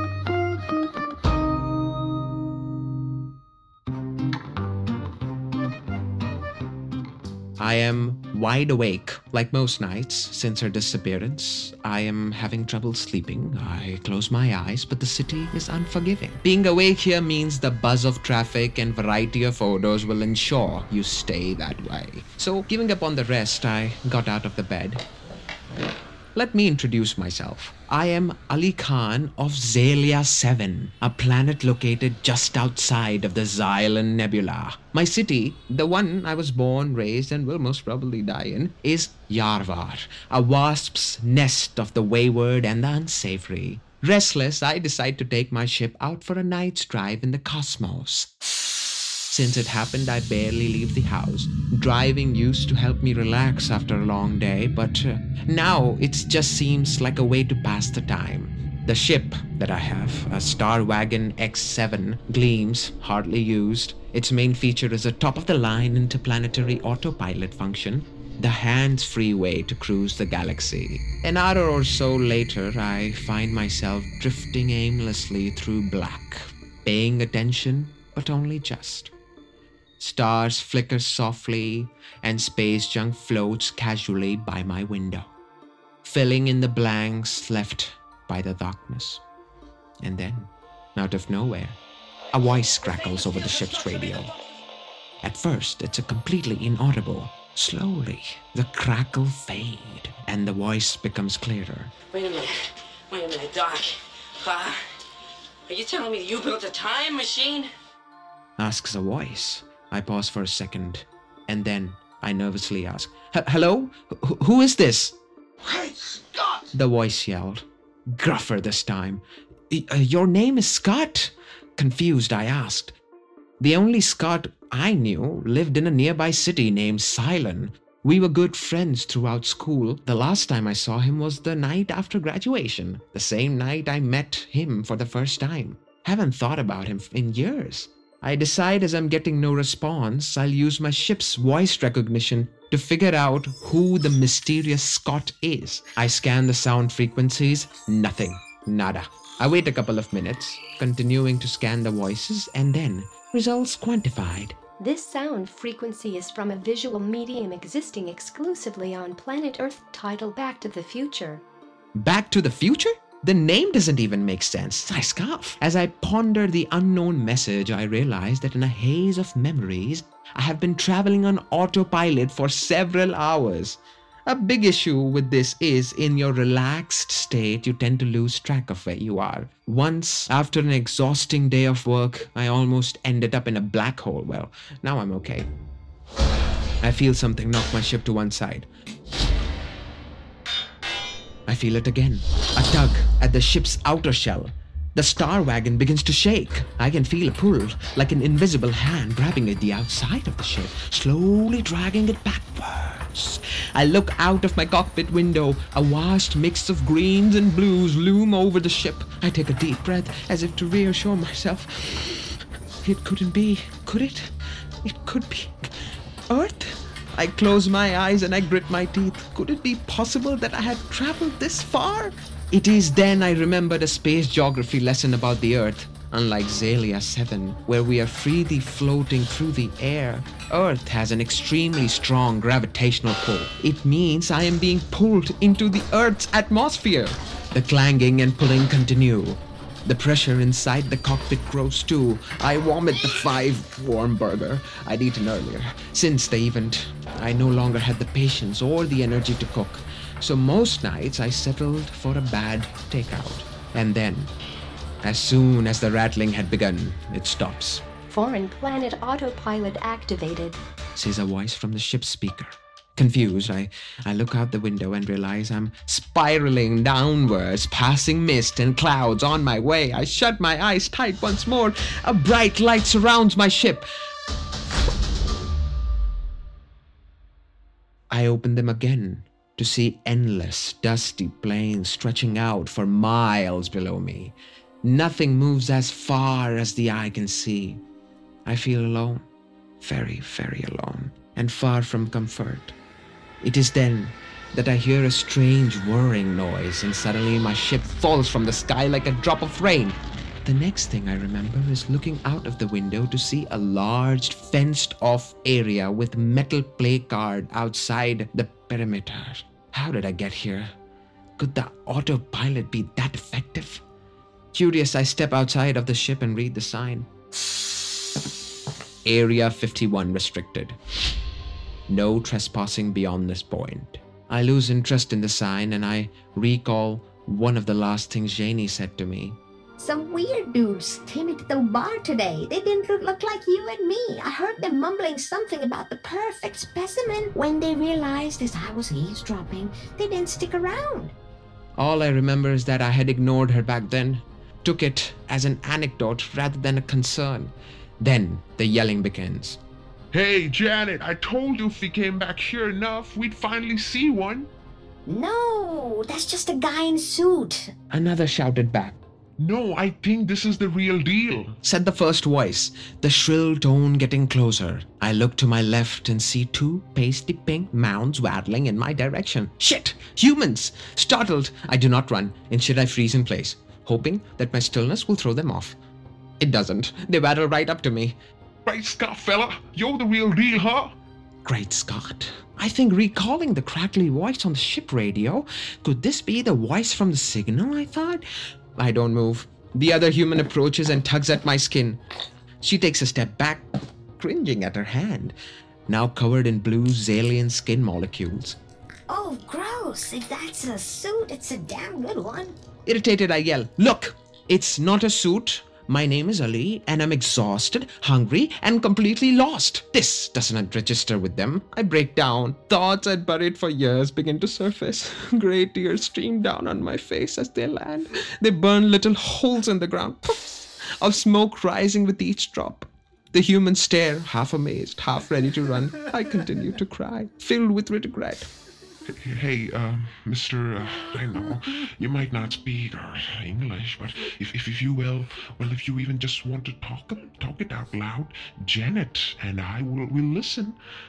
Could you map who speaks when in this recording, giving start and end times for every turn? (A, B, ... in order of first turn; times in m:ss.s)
0:07.6-0:25.0 A
0:26.4-0:48.3 A
0:49.3-1:19.1 A
1:20.0-1:25.3 A
1:26.0-1:29.2 A
1:30.0-1:31.8 A
1:32.3-1:34.4 A
1:35.2-1:41.9 A
1:42.1-1:44.8 B
1:45.7-1:47.7 B
1:48.6-1:55.2 A
1:56.5-2:03.0 A
2:03.6-2:34.6 A
2:34.8-2:41.4 C
2:42.0-3:05.5 A
3:06.8-3:08.7 A
3:11.5-3:35.7 A
3:36.3-4:14.3 A
4:15.0-4:17.8 A
4:18.1-4:20.6 C
4:21.0-4:33.9 A
4:38.1-4:47.8 A
4:48.5-4:49.3 A
4:49.8-4:52.8 A
4:53.4-5:10.7 A
5:11.4-5:13.8 A
5:14.5-5:17.1 A
5:19.0-5:20.8 A
5:21.9-5:29.4 A
5:29.8-5:41.1 D
5:41.8-5:49.6 A
5:50.1-5:54.5 E
5:55.1-5:57.7 D
5:57.9-5:59.0 A
5:59.4-6:01.6 E
6:01.6-6:15.8 A
6:16.4-6:18.2 A
6:18.7-6:21.0 E
6:21.4-6:28.2 A
6:28.8-6:32.0 A
6:32.6-6:33.7 A
6:34.2-6:35.4 A
6:35.9-6:38.6 A
6:39.1-6:42.6 D
6:42.9-7:08.5 A
7:09.1-7:20.8 E